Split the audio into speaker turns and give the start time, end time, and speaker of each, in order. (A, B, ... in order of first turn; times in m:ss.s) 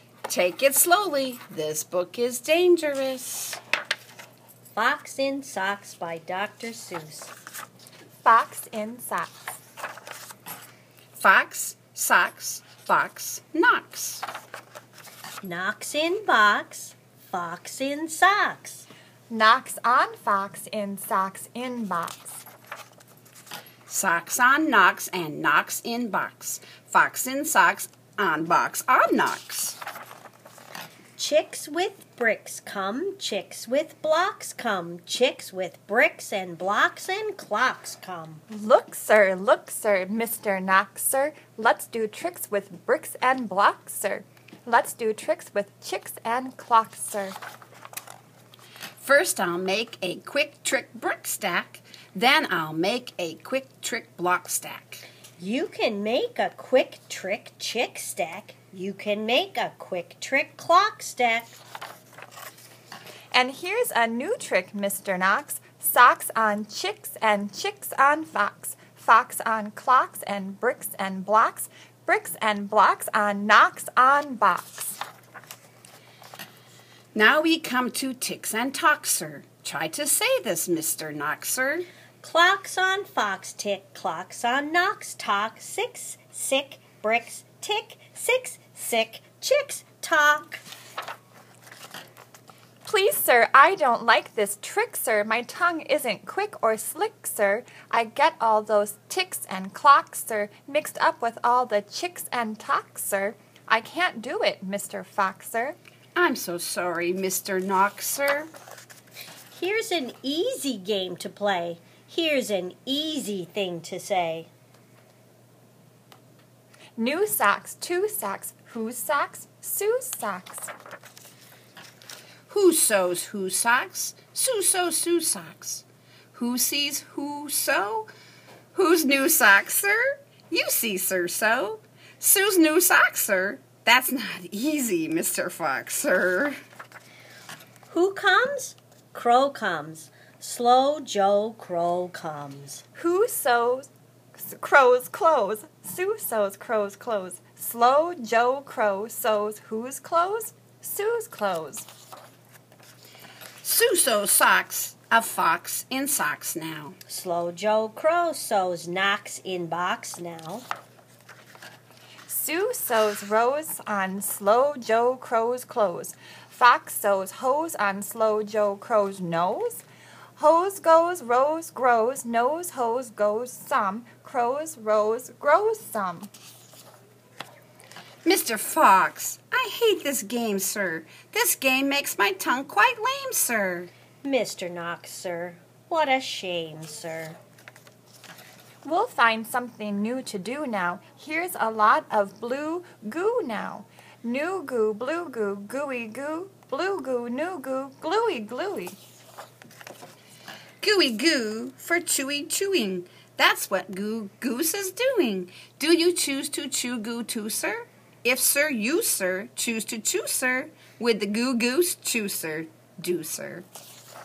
0:00.3-0:03.6 A
0:04.7-0:07.3 B
0:08.2-0:09.5 C
0:11.2-0:14.2 A
0:15.4-0:18.9 B
0:19.3-0:22.4 C
0:23.9-0:29.8 A
0:31.2-0:38.4 B
0:38.5-0:47.4 C
0:49.0-0:55.0 A
0:55.4-1:01.6 B
1:03.3-1:15.0 C
1:17.1-1:21.9 A
1:22.2-1:30.6 B
1:32.8-1:45.8 C
1:46.1-1:48.5 A
1:49.5-1:54.5 B
1:57.0-2:00.7 C
2:02.5-2:08.1 A
2:08.7-2:16.6 A
2:17.9-2:22.8 B
2:23.0-2:31.9 C
2:33.6-2:37.0 A
2:37.1-2:40.7 B
2:42.3-2:49.8 C
2:50.4-2:56.3 C
2:58.2-3:03.9 A
3:04.2-3:07.4 B
3:08.8-3:19.0 C
3:20.8-3:33.7 A